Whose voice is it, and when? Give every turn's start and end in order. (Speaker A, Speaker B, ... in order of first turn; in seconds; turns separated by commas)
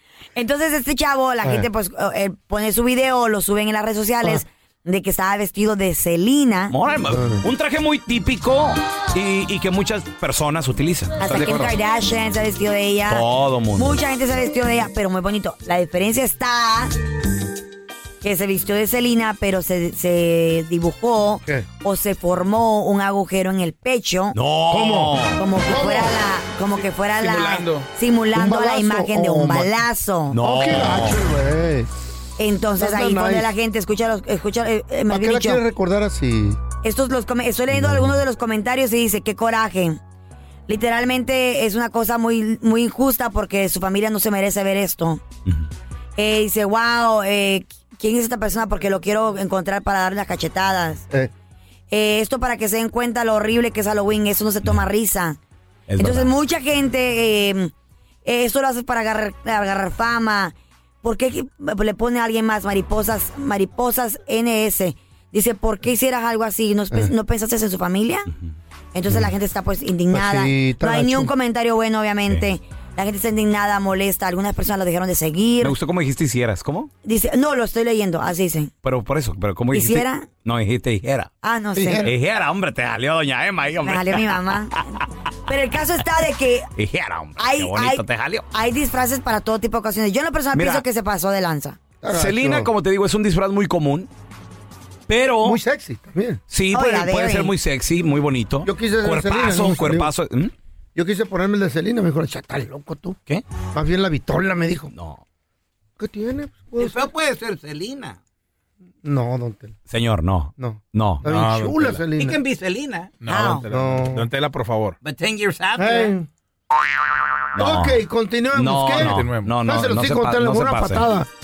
Speaker A: 0.4-6.7, Speaker B: 6.7-11.7, Speaker C: 7.1-7.4, Speaker A: 11.2-16.9, Speaker B: 13.1-14.0, Speaker A: 18.2-24.4, Speaker B: 24.3-25.4, Speaker C: 24.7-26.1, Speaker A: 25.4-30.4, Speaker D: 27.2-27.8, Speaker C: 28.4-29.7, Speaker B: 30.3-31.2, Speaker C: 30.4-31.9, Speaker A: 32.4-35.6, Speaker C: 32.8-33.5, Speaker C: 35.1-36.6, Speaker A: 36.8-40.0, Speaker C: 37.8-38.1, Speaker A: 40.7-45.2, Speaker A: 46.2-51.1, Speaker A: 51.9-55.4, Speaker B: 55.9-56.3, Speaker A: 56.0-57.7, Speaker A: 58.2-68.3, Speaker A: 68.9-75.8, Speaker C: 70.1-71.3, Speaker B: 75.6-76.9, Speaker A: 77.0-78.7, Speaker B: 78.8-81.3, Speaker A: 79.7-80.3, Speaker A: 81.4-82.1, Speaker C: 81.8-82.1, Speaker B: 82.0-84.4, Speaker A: 83.8-84.8, Speaker A: 85.5-86.7, Speaker B: 86.8-88.4, Speaker A: 87.4-91.8, Speaker B: 90.5-90.8, Speaker C: 92.0-92.7, Speaker B: 92.1-94.1, Speaker B: 95.1-95.6, Speaker C: 95.4-96.4, Speaker B: 96.5-100.5, Speaker A: 96.7-97.5, Speaker C: 98.6-100.1, Speaker C: 101.0-103.2, Speaker C: 103.7-104.9, Speaker B: 104.9-105.2, Speaker C: 106.0-107.0, Speaker E: 106.8-108.2, Speaker C: 109.0-109.7, Speaker B: 109.9-111.2, Speaker C: 110.6-112.4, Speaker D: 111.3-111.8, Speaker E: 112.2-113.1, Speaker D: 113.2-115.0, Speaker A: 113.2-113.7, Speaker C: 113.7-114.3, Speaker E: 115.0-116.1, Speaker C: 115.8-116.3, Speaker B: 117.5-118.0, Speaker C: 117.6-121.3, Speaker B: 118.5-121.1, Speaker D: 119.0-119.5